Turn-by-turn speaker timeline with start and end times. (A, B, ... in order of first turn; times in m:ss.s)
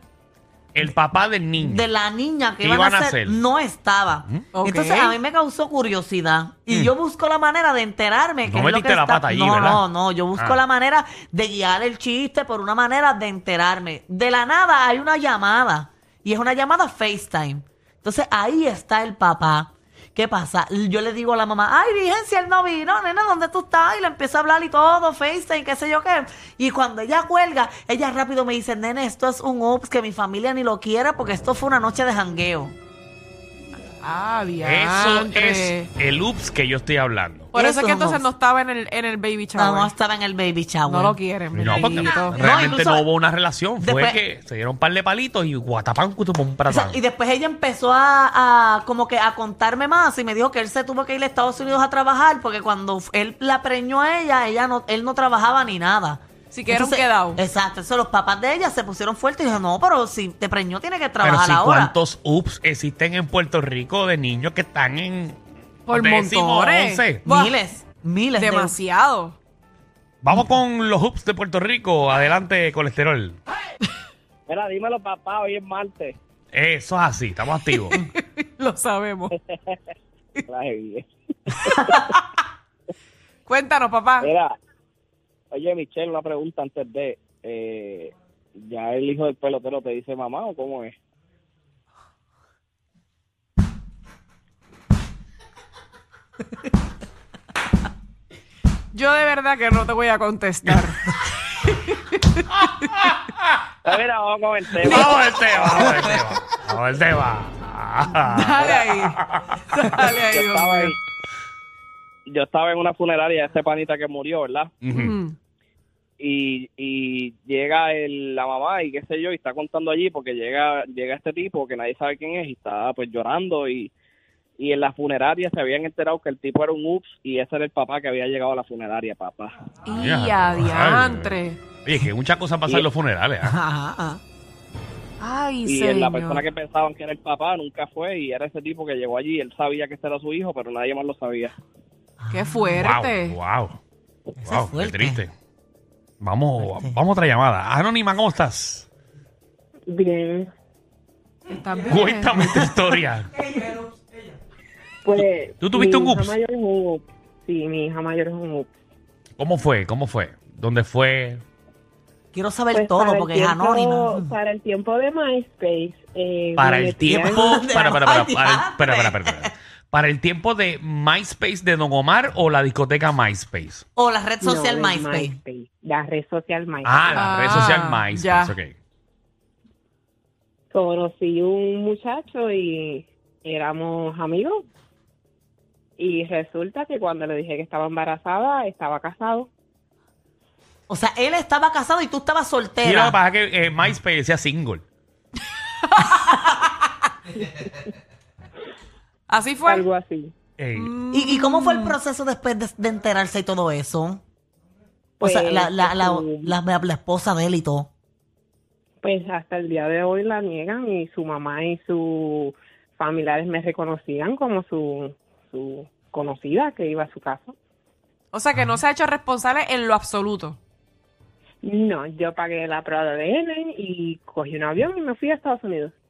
0:00.8-0:01.9 A
0:01.6-0:32.8 B
0:02.6-0:03.4 A
0:04.5-0:05.2 C
0:08.5-0:09.8 A
0:34.0-0:35.9 C
0:34.6-0:37.5 A
0:37.5-0:39.9 C
0:37.5-0:38.3 B
0:39.6-0:41.2 B
0:40.8-0:42.4 C
0:41.5-0:47.0 A
0:42.3-0:43.1 B
0:43.8-0:44.2 B
0:46.7-1:01.9 B
0:56.5-0:57.4 C
1:01.2-1:05.4 A
1:05.9-1:07.6 C
1:05.9-1:07.2 A
1:07.2-1:08.8 B
1:08.4-1:09.4 C
1:10.2-1:13.4 A
1:14.5-1:16.2 D
1:16.5-1:18.0 A
1:17.7-1:19.3 C
1:20.5-1:21.9 D
1:21.7-1:22.4 C
1:23.5-1:24.3 C
1:24.2-1:24.5 D
1:25.5-1:31.0 D
1:38.9-1:43.0 C
1:43.0-1:43.6 A
1:43.8-1:46.0 D
1:44.8-1:49.4 A
1:48.2-1:49.2 C
1:49.7-1:50.9 C
1:50.3-1:51.0 D
1:52.3-1:54.7 D
1:54.8-1:55.2 A
1:54.9-1:55.3 C
1:56.2-2:03.9 D
2:04.6-2:09.5 D
2:09.8-2:11.6 C
2:09.9-2:13.5 A
2:13.4-2:14.2 B
2:15.2-2:16.4 C
2:15.7-2:21.5 D
2:22.2-2:22.6 B
2:22.3-2:23.4 C
2:22.7-2:23.8 A
2:24.4-2:25.2 B
2:24.4-2:25.3 A
2:26.2-2:28.9 A
2:26.6-2:27.0 B
2:29.9-2:30.5 E
2:31.5-2:32.7 C
2:31.8-2:33.3 A
2:35.0-2:38.7 E
2:35.1-2:36.3 A
2:39.4-2:41.4 A
2:42.3-2:44.4 B
2:42.7-2:48.0 E
2:46.6-2:53.8 A
2:47.3-2:49.5 B
2:54.0-2:55.4 B
2:54.4-2:57.3 E
2:56.8-2:58.7 A
2:57.1-2:58.5 C
3:00.7-3:04.6 E
3:06.0-3:09.5 E
3:10.9-3:13.2 B
3:12.8-3:14.8 A
3:15.9-3:16.7 C
3:19.3-3:19.9 C
3:19.7-3:20.3 E
3:20.6-3:21.0 A
3:20.7-3:22.0 C
3:21.1-3:24.2 B
3:25.2-3:26.5 E
3:25.2-3:27.9 B
3:29.0-3:37.6 E
3:38.3-3:40.6 C
3:41.6-3:45.9 E